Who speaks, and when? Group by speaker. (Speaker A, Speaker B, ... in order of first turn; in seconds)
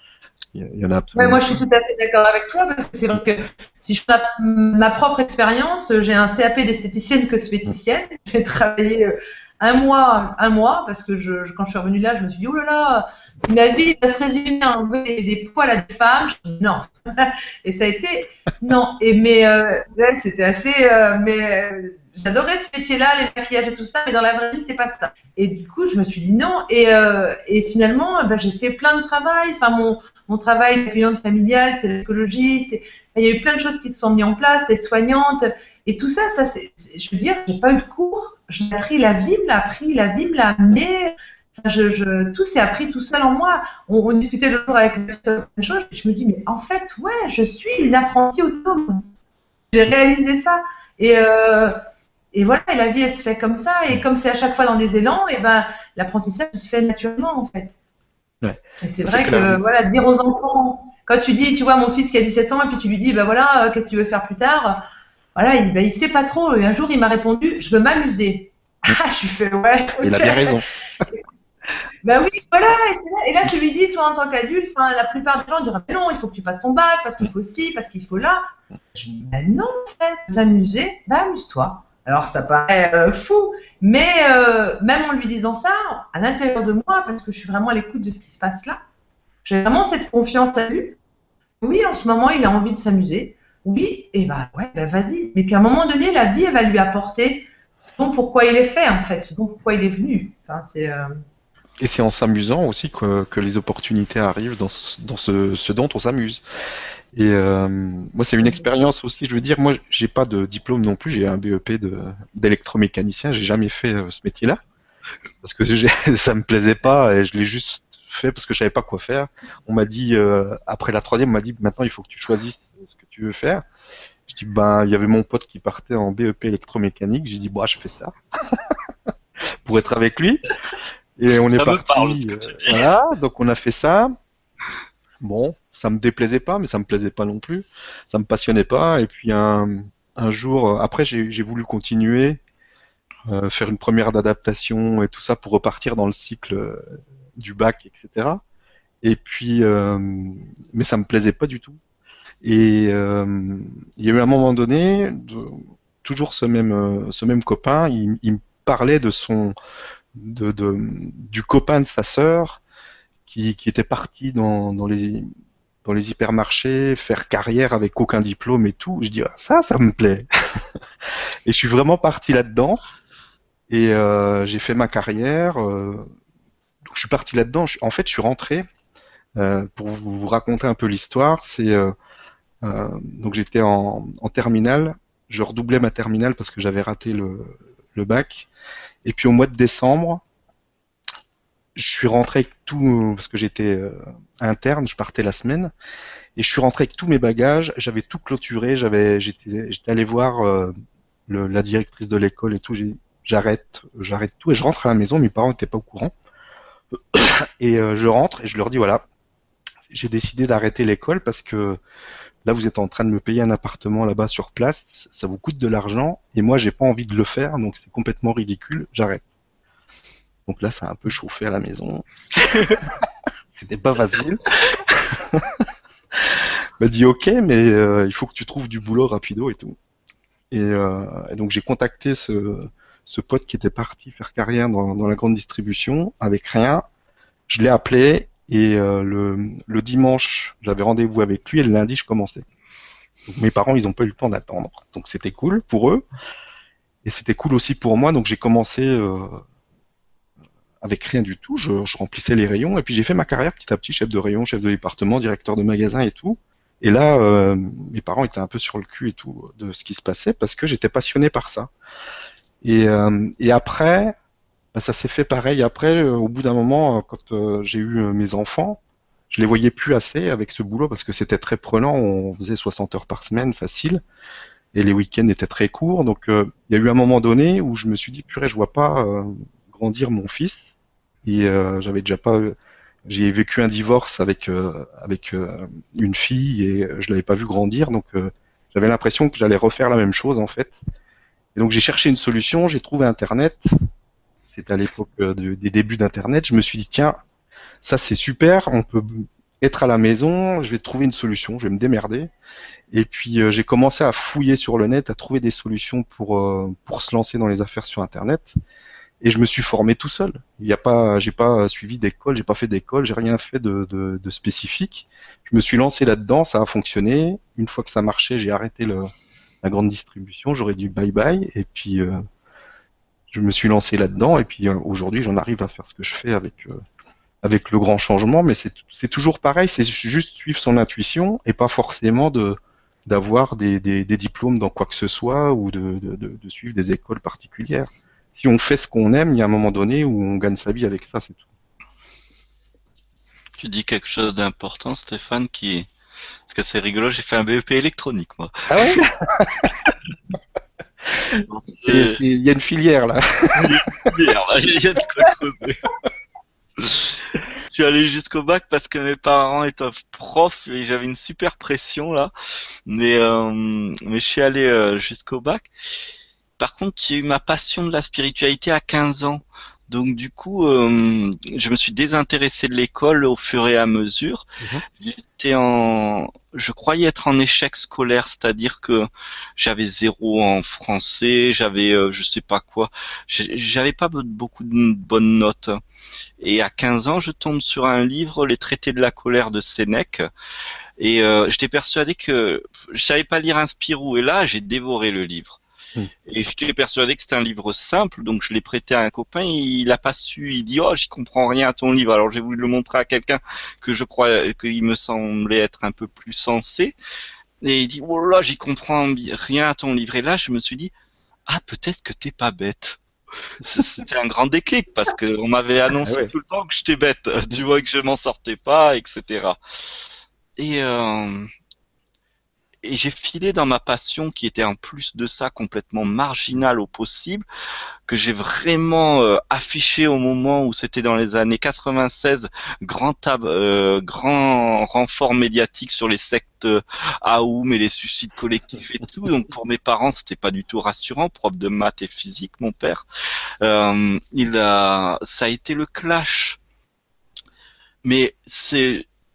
Speaker A: 0.5-1.6, 58.4-59.6, 70.0-70.7, 101.8-106.4, 107.1-114.6, 115.4-123.6, 124.3-128.8, 129.6-130.4, 131.2-134.1, 135.2-142.4, 143.3-148.4, 149.0-151.8, 152.4-159.5, 160.1-162.6, 163.3-165.3, 165.8-170.8, 171.4-172.8, 173.7-176.1, 176.8-178.7, 179.4-181.9, 182.6-188.5, 189.0-190.2, 191.8-195.7, 196.3-200.7, 201.3-206.1, 207.1-209.0, 209.9-211.8, 212.4-219.2, 220.4-222.6, 223.5-225.6, 226.2-229.8, 230.5-236.8, 237.5-242.4, 243.3-246.0, 247.0-249.4, 250.8-261.7, 262.6-264.1, 264.7-268.8, 269.3-274.0, 274.7-280.6, 281.2-282.5, 283.1-290.8, 291.5-293.7, 294.5-297.2, 297.8-302.3, 302.9-308.5, 309.2-319.1, 319.6-322.2, 323.3-326.8, 327.4-341.4, 348.7-349.7, 351.9-354.1, 416.0-416.3
Speaker B: 1.1-49.0, 49.7-51.8, 52.3-57.8, 58.8-64.8, 65.3-71.2, 72.0-78.4, 78.9-88.8, 89.4-91.0, 91.6-101.1
Speaker C: 131.5-132.9, 343.6-345.9, 346.5-349.0, 351.5-352.2, 353.6-355.9, 356.8-362.3, 362.9-365.7, 366.6-374.4, 375.0-385.8, 386.4-390.3, 391.0-395.6, 396.2-406.9, 407.6-410.9, 411.5-413.0, 413.6-419.6, 420.6-421.5, 422.8-427.4, 428.1-443.0, 443.6-446.6, 448.0-449.0